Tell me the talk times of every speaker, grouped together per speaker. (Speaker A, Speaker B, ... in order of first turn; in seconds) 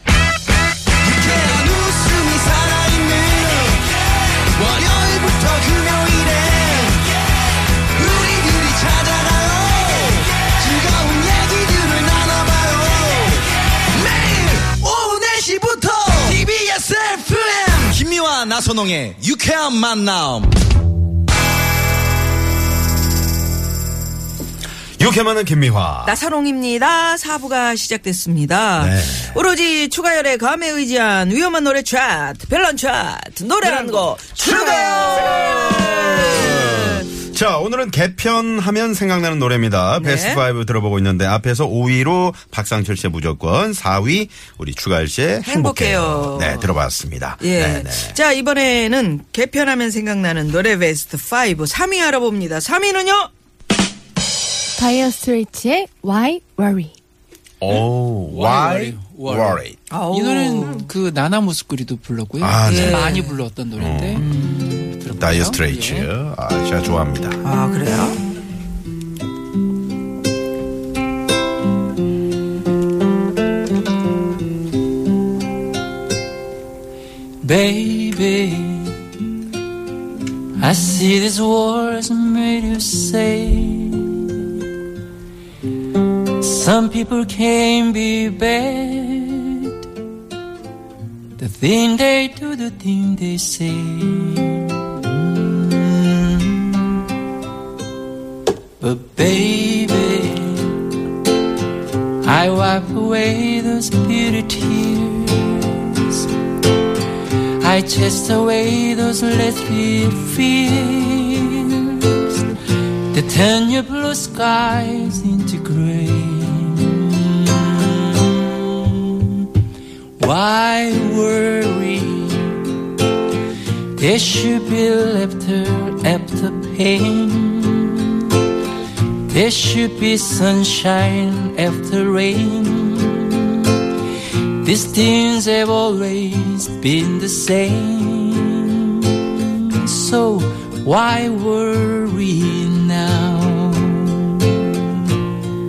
Speaker A: 1.0-3.9, 4.5-7.0, 7.9-20.5
Speaker B: 25.0-26.2, 28.8-29.4, 35.2-48.2, 57.6-59.8, 62.4-63.1, 63.8-64.3, 65.2-67.4
Speaker C: 26.0-37.1, 40.0-40.4, 45.4-46.7, 47.4-53.3, 59.9-60.9, 62.6-63.4, 64.2-64.9, 67.4-68.2
Speaker D: 33.6-34.1, 34.8-35.1, 57.7-66.1, 77.4-79.0, 80.6-84.5, 86.3-89.8, 91.4-97.0, 98.8-100.9, 102.2-106.3, 107.6-112.4, 113.1-119.5, 120.2-122.8, 124.0-128.4, 129.1-145.2
Speaker E: 54.8-56.9